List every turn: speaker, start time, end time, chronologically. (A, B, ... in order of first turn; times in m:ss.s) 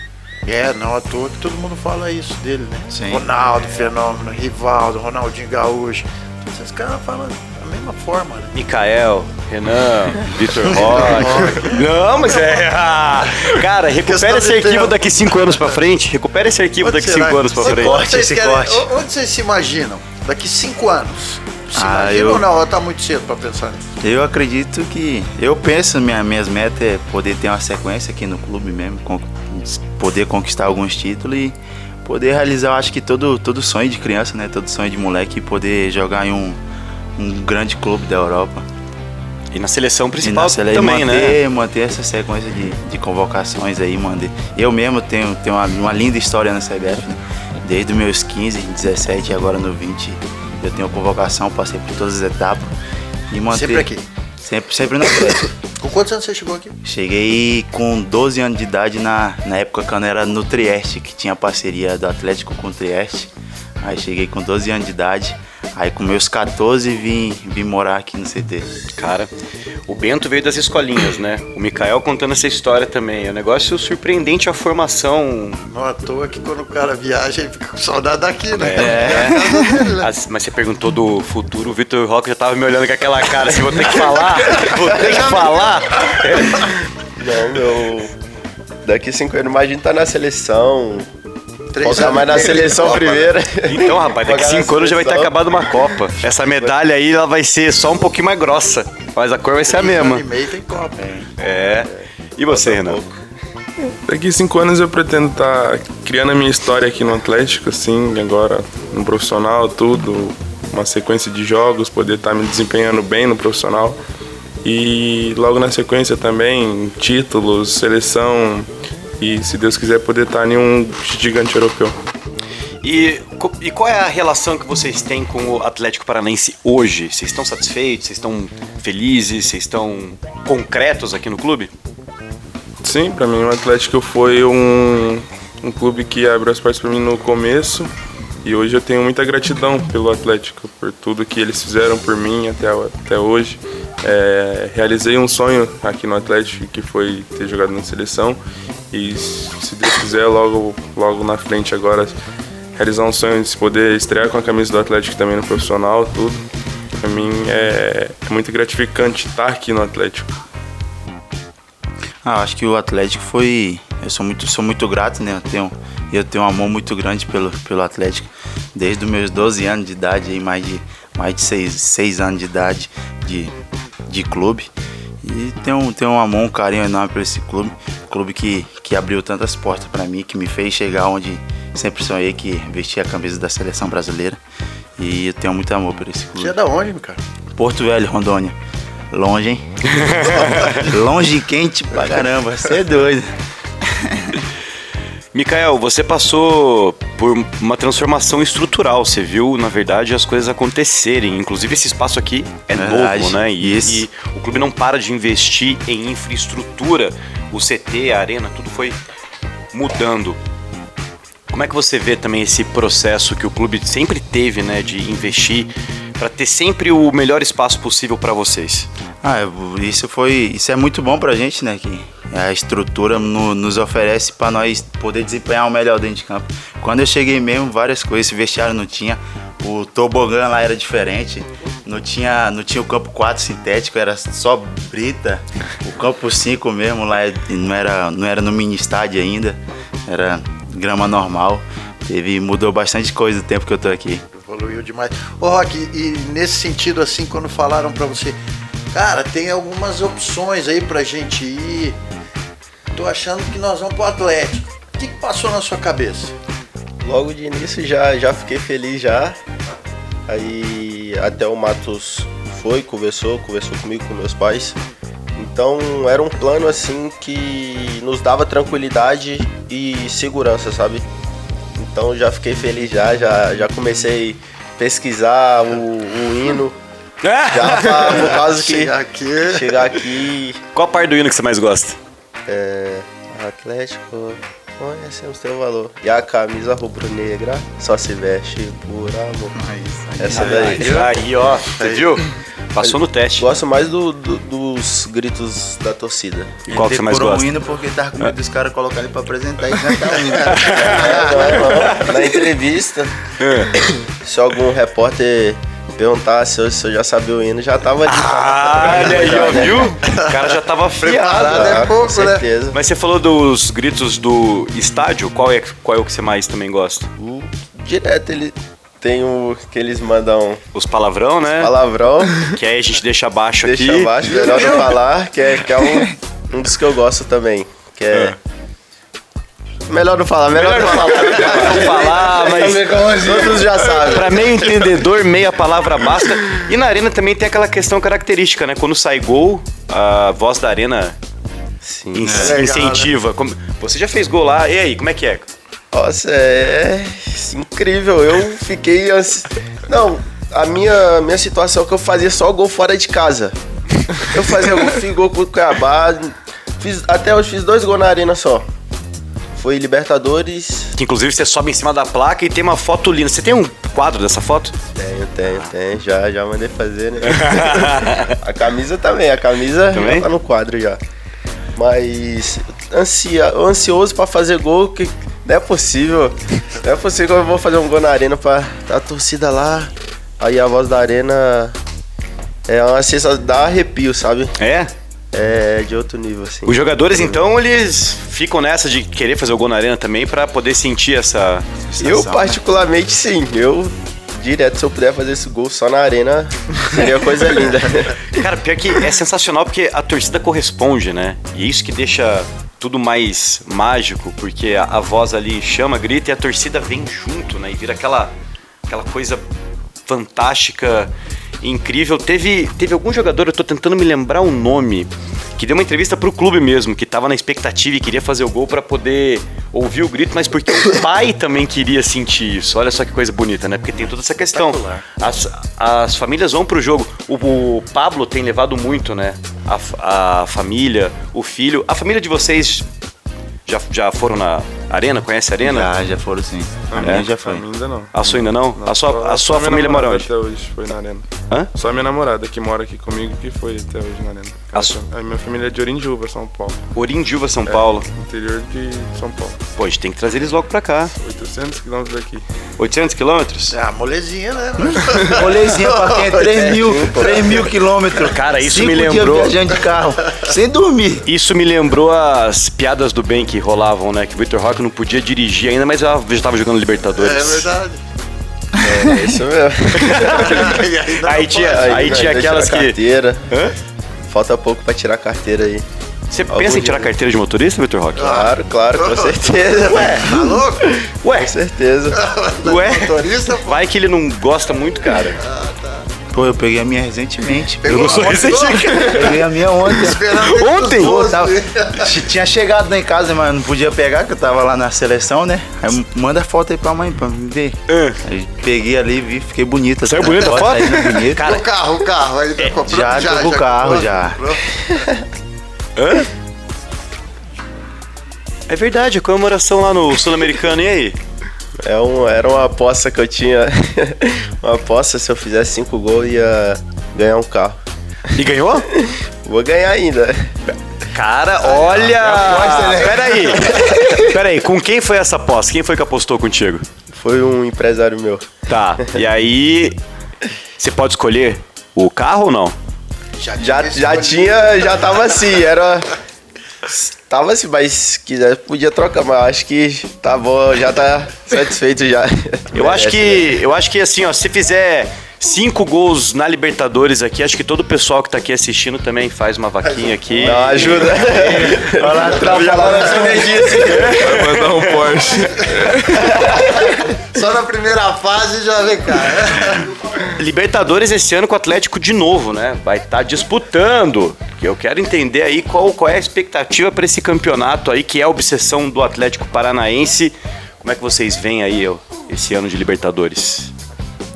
0:00.4-0:08.5 A
0:02.9-0:03.2 B
0:08.5-0:18.0 C
0:10.6-0:12.4 A
0:13.4-0:15.8 A
0:16.8-0:23.9 A
0:17.6-0:18.9 B
0:21.8-0:22.5 B
0:24.0-0:36.6 B
0:37.2-0:38.7 B
0:39.5-0:41.4 C
0:40.2-0:52.8 B
0:53.3-0:53.9 B
0:53.5-0:54.0 A
0:54.4-0:55.5 B
0:55.8-0:56.8 A
0:56.8-1:08.7 B
1:09.0-1:09.3 C
1:09.9-1:15.7 C
1:15.7-1:20.1 A
1:18.6-1:19.4 C
1:18.8-1:19.9 B
1:20.0-1:26.7 C
1:24.9-1:26.2 A
1:27.2-1:28.1 D
1:28.8-1:31.1 D
1:31.7-1:33.4 A
1:31.8-1:35.4 D
1:33.6-1:40.3 C
1:36.4-1:36.7 D
1:39.6-1:41.2 A
1:41.4-1:43.0 C
1:42.0-1:43.2 D
1:44.1-1:54.0 E
1:54.6-1:58.7 E
1:59.2-2:02.0 E
2:02.8-2:11.7 C
2:12.8-2:17.9 E
2:18.4-2:28.4 E
2:28.9-2:32.2 E
2:32.8-2:36.4 E
2:36.9-2:40.3 E
2:42.2-2:53.5 B
2:54.1-2:54.7 B
2:55.2-3:04.4 B
3:05.0-3:06.6 B
3:06.4-3:07.2 A
3:07.6-3:08.6 B
3:09.1-3:14.4 B
3:09.9-3:10.9 C
3:15.3-3:29.0 C
3:22.7-3:24.1 B
3:29.7-3:30.4 C
3:31.5-3:38.9 C
3:39.2-4:04.2 B
4:04.3-4:08.4 A
4:08.9-4:12.0 A
4:12.9-4:16.3 A
4:17.0-4:19.4 D
4:20.3-4:24.8 D
4:25.4-4:31.0 D
4:31.8-4:36.8 D
4:37.2-4:38.3 C
4:37.5-4:38.9 D
4:37.8-4:40.0 A
4:39.5-4:40.6 D
4:40.7-4:42.0 C
4:42.5-4:49.6 D
4:49.6-4:51.1 B
4:50.2-4:51.1 D
4:50.3-4:53.5 C
4:51.8-4:52.2 A
4:52.8-4:56.6 D
4:56.7-4:57.5 C
4:56.7-5:01.6 B
5:00.4-5:02.1 C
5:00.7-5:03.1 D
5:03.4-5:03.8 C
5:03.8-5:10.0 D
5:08.1-5:11.9 C
5:08.8-5:12.5 A
5:11.4-5:12.8 D
5:12.7-5:17.1 C
5:17.2-5:20.6 D
5:20.7-5:21.7 C
5:21.6-5:22.6 D
5:22.4-5:24.2 C
5:23.6-5:28.4 D
5:24.3-5:24.9 A
5:29.9-5:34.7 D
5:30.5-5:33.1 C
5:33.3-5:33.7 B
5:34.0-5:41.2 C
5:41.8-5:42.5 D
5:42.1-5:45.5 C
5:42.2-5:42.6 B
5:42.3-5:43.1 A
5:45.9-5:53.6 D
5:54.1-5:58.7 D
5:59.6-6:00.9 D
6:01.0-6:04.8 C
6:05.0-6:11.0 D
6:07.2-6:08.4 C
6:09.9-6:10.3 C
6:11.8-6:21.8 D
6:22.7-6:24.6 D
6:24.6-6:24.9 C
6:25.3-6:27.4 D
6:26.7-6:31.7 C
6:31.8-6:32.6 B
6:32.0-6:38.2 D
6:38.3-6:48.3 C
6:48.9-6:49.4 C
6:50.1-7:12.9 C
7:04.5-7:05.0 A
7:13.7-7:15.9 C
7:15.6-7:17.6 B
7:16.9-7:26.8 E
7:18.1-7:20.3 C
7:27.0-7:28.1 C
7:27.7-7:29.6 E
7:29.8-7:31.1 C
7:31.2-7:32.4 E
7:32.8-7:33.8 C
7:33.7-7:37.7 A
7:34.8-7:41.3 B
7:36.7-7:37.5 D
7:38.2-7:39.6 C
7:41.2-7:47.7 C
7:47.2-7:48.0 A
7:48.8-7:50.8 D
7:48.8-7:49.3 B
7:50.0-7:53.0 C
7:50.2-7:52.2 A
7:51.7-7:53.5 D
7:53.5-7:53.8 C
7:54.3-7:55.8 D
7:56.3-7:58.3 C
7:56.5-7:57.1 D
7:58.2-8:01.0 A
7:58.2-8:00.3 D
7:59.9-8:00.4 C
8:01.0-8:02.2 D
8:01.2-8:01.5 C
8:02.1-8:03.8 A
8:02.6-8:05.4 C
8:05.3-8:06.1 A
8:06.3-8:10.3 B
8:07.8-8:12.2 A
8:07.9-8:09.4 C
8:10.3-8:11.3 C
8:11.0-8:21.5 B
8:17.9-8:18.2 C
8:20.0-8:21.6 C
8:21.4-8:25.1 A
8:22.8-8:24.4 B
8:26.0-8:26.3 C
8:28.7-8:31.2 C
8:31.8-8:37.8 D
8:38.3-8:38.9 C
8:38.9-8:40.6 D
8:41.1-8:46.9 C
8:42.0-8:44.2 B
8:47.1-8:49.2 D
8:48.7-8:50.0 C
8:50.8-8:52.8 C
8:53.4-8:55.5 A
8:53.6-8:56.1 D
8:56.9-9:03.5 D
9:02.7-9:11.8 C
9:09.8-9:11.1 A
9:10.4-9:14.3 D
9:11.2-9:14.2 B
9:12.2-9:13.3 A
9:12.4-9:14.9 C
9:14.2-9:16.5 E
9:17.2-9:20.0 A
9:20.3-9:33.7 C